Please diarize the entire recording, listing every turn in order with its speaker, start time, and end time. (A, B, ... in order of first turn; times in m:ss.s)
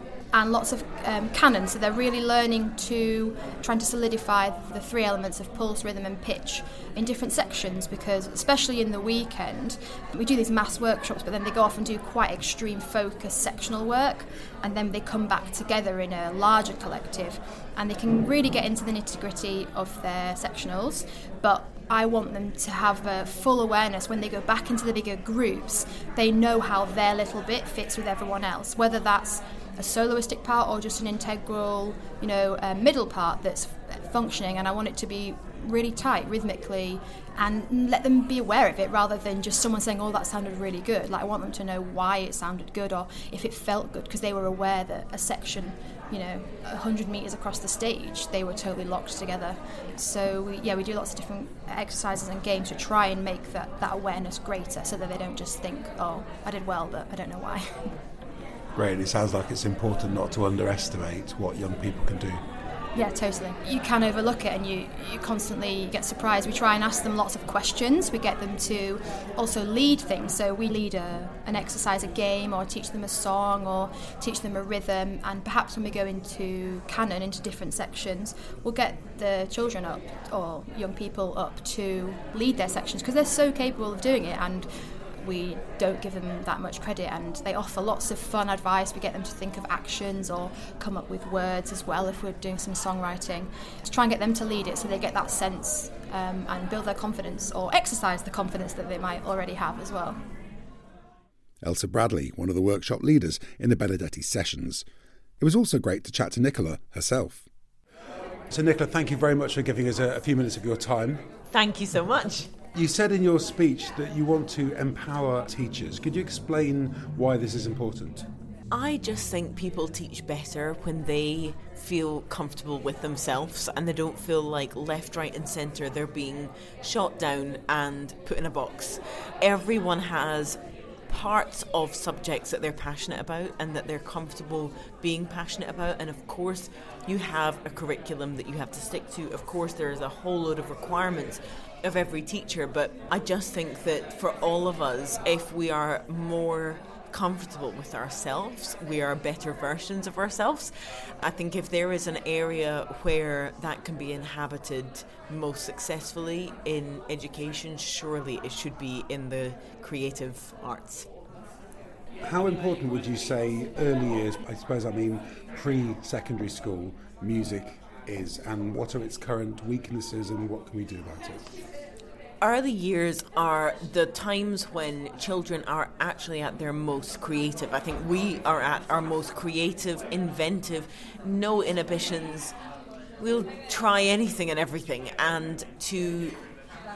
0:00.3-0:57.9 A
0:58.8-1:02.4 B
1:02.9-1:40.2 A
1:41.6-1:44.8 B
1:45.4-1:47.4 B
1:48.5-1:51.2 B
1:51.5-1:52.5 C
1:52.7-1:58.3 B
1:58.7-2:41.1 C
2:42.2-2:51.5 B
2:52.4-3:02.5 C
3:03.2-3:06.4 C